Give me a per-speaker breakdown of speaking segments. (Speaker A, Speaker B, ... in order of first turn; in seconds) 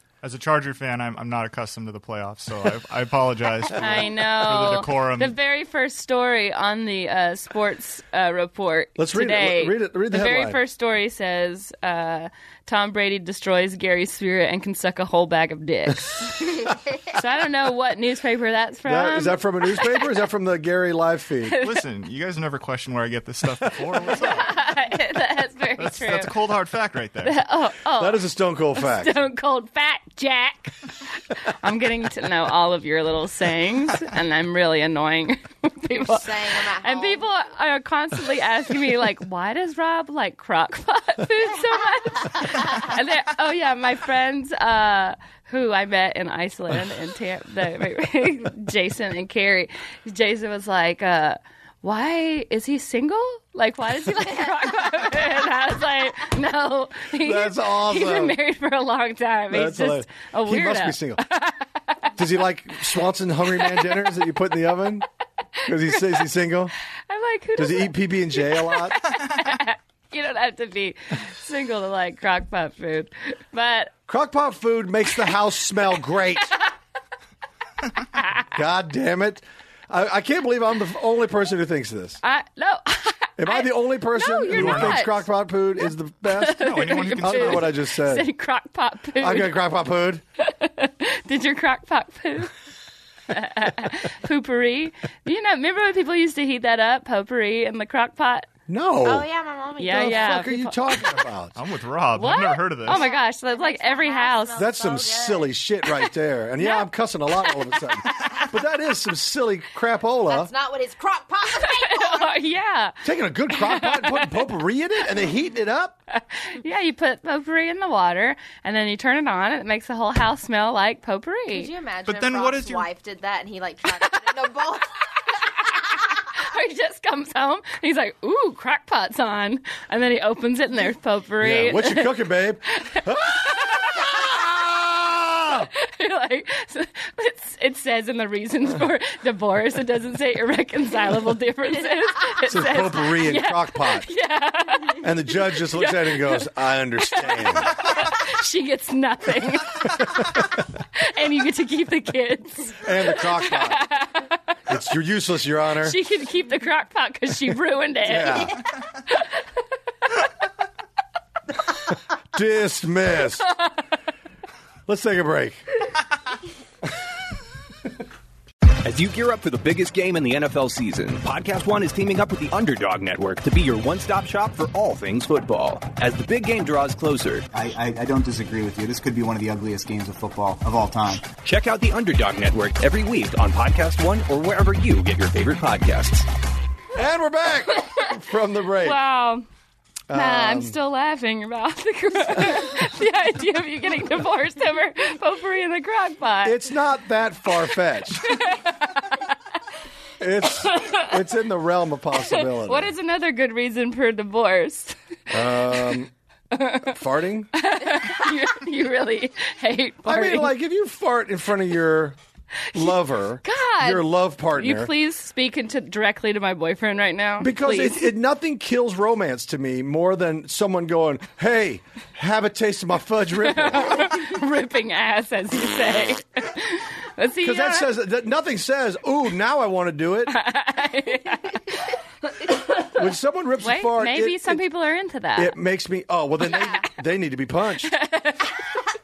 Speaker A: 0.2-5.3, 21.6-24.6, 25.8-27.4, 84.5-85.1, 86.5-87.7, 101.5-103.0, 122.0-122.9
Speaker B: 3.7-20.0, 21.5-21.8, 24.1-26.3, 27.2-62.1, 63.6-64.0, 65.6-66.2, 67.1-73.9, 82.2-85.2, 86.3-89.5, 90.4-92.5, 93.3-98.5, 99.8-100.8, 102.2-104.7, 106.6-106.9, 107.4-108.4, 111.5-113.0, 113.5-114.4, 116.1-121.7, 125.8-132.2, 132.8-134.3, 135.7-150.4, 150.9-154.6, 155.8-159.4, 188.8-189.4, 190.1-196.6, 198.2-199.3, 200.6-201.2, 202.2-204.9, 206.5-206.9, 207.5-210.5, 212.7-218.1, 223.4-227.9, 230.3-231.8, 232.4-233.0, 233.6-235.5, 237.9-238.6
Speaker C: 9.0-10.6, 18.8-21.6, 24.0-24.4, 28.0-29.1, 57.1-58.4, 59.5-61.2, 62.1-65.1, 65.6-66.7, 67.6-69.0, 74.1-76.6, 78.5-82.2, 83.4-88.3, 89.2-90.2, 98.7-99.3, 99.9-101.5, 104.5-110.5, 113.0-116.0, 131.4-135.7, 142.4-144.1, 145.0-147.8, 152.8-153.8, 154.7-156.0, 158.0-158.6, 162.3-163.4, 164.9-165.6, 186.9-189.0, 190.1-190.8, 196.4-198.4, 200.2-202.9, 205.3-206.1, 206.8-207.5, 210.0-212.2, 212.7-214.9, 217.4-224.1, 227.4-230.4, 232.9-234.6, 235.3-237.9
Speaker D: 35.9-37.2, 42.4-42.9, 99.0-100.5, 102.8-105.5, 110.3-112.3, 121.5-125.7, 236.4-236.8
Speaker E: 168.8-177.5, 181.3-186.2
Speaker F: 177.5-181.3